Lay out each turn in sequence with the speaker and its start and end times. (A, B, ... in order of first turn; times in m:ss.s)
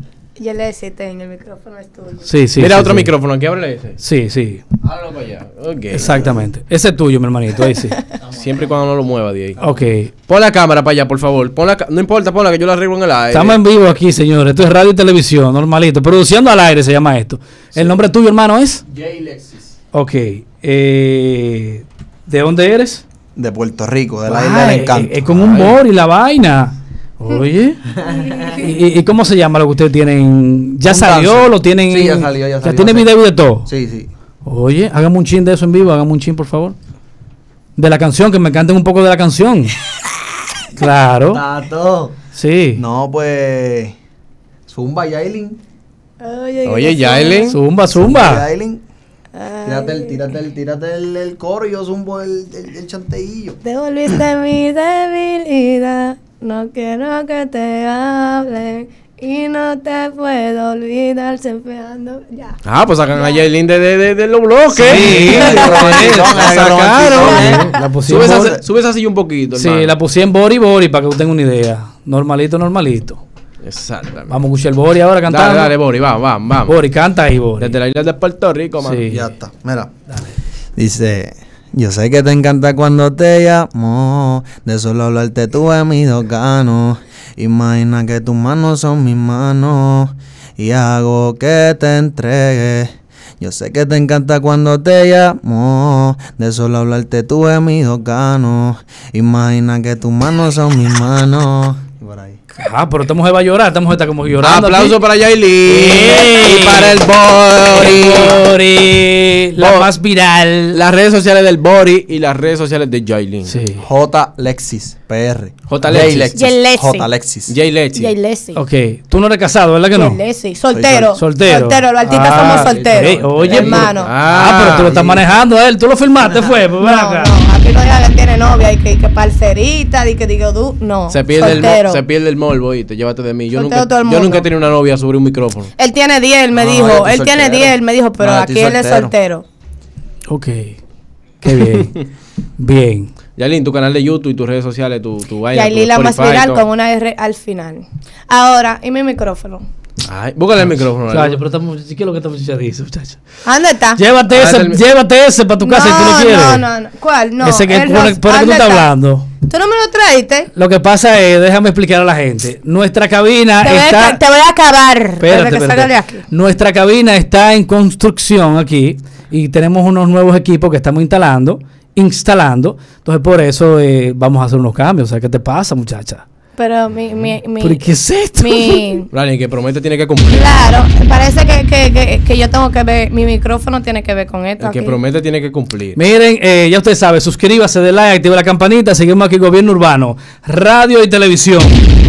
0:00.4-0:02.3 A
0:02.2-0:03.1 B
0:02.6-0:04.0 C
0:04.0-0:04.6 B
0:04.8-0:06.3 C
0:05.9-0:08.0 B
0:08.3-0:09.6 C
0:09.6-0:10.1 B
0:10.3-0:13.6 C
0:13.3-0:18.8 B
0:17.7-0:18.0 C
0:18.9-0:19.7 D
0:19.9-0:23.0 B
0:23.4-0:25.7 D
0:24.3-0:27.9 B
0:25.4-0:25.8 C
0:28.0-0:28.5 D
0:28.5-0:33.7 B
0:30.9-0:33.1 D
0:33.6-0:34.1 D
0:34.4-0:36.8 B
0:37.8-0:39.8 B
0:40.8-0:41.4 B
0:41.3-0:42.2 D
0:42.4-0:42.8 B
0:42.8-0:44.0 D
0:44.7-0:45.6 D
0:46.2-0:47.6 A
0:46.7-0:47.6 C
0:47.5-0:48.5 B
0:47.9-0:48.8 D
0:49.4-0:50.2 A
0:49.7-0:53.6 D
0:53.6-1:02.6 A
1:02.6-1:09.9 C
1:03.2-1:03.4 A
1:04.8-1:06.6 B
1:05.2-1:06.0 A
1:05.4-1:08.6 D
1:07.2-1:07.7 A
1:07.7-1:08.6 B
1:09.6-1:13.2 B
1:13.6-1:14.4 C
1:14.3-1:15.7 B
1:15.3-1:16.8 C
1:16.7-1:17.8 B
1:17.6-1:19.1 C
1:18.8-1:19.3 B
1:19.1-1:20.0 D
1:20.8-1:42.4 D
1:42.6-1:45.0 B
1:44.4-1:48.4 C
1:45.6-1:47.0 B
1:47.7-1:50.8 B
1:49.6-1:49.9 C
1:50.7-1:53.6 C
1:53.5-1:53.8 B
1:53.8-1:57.5 D
1:55.7-1:56.3 C
1:56.3-1:57.1 A
1:57.5-1:58.1 C
1:58.0-1:58.6 A
1:58.6-2:00.2 B
1:59.9-2:04.1 A
2:00.7-2:01.2 D
2:01.2-2:07.3 B
2:02.2-2:03.9 D
2:03.4-2:05.2 C
2:06.3-2:12.0 A
2:11.1-2:15.7 C
2:13.5-2:14.5 A
2:15.8-2:19.5 A
2:16.5-2:19.1 D
2:20.3-2:20.8 B
2:21.4-2:22.0 B
2:21.6-2:21.9 C
2:22.6-2:23.1 B
2:23.4-2:26.6 C
2:25.5-2:29.6 A
2:30.0-2:31.4 C
2:30.7-2:33.2 B
2:33.4-2:34.0 A
2:34.0-2:36.7 B
2:34.3-2:34.8 C
2:35.6-2:38.9 A
2:37.4-2:39.3 B
2:39.4-2:40.5 A
2:40.6-2:44.2 B
2:43.6-2:46.3 A
2:45.2-2:56.2 B
2:56.6-2:59.1 A
2:57.6-2:59.1 B
2:59.1-3:00.6 C
3:00.3-3:05.0 A
3:04.6-3:06.0 C
3:06.0-3:11.8 B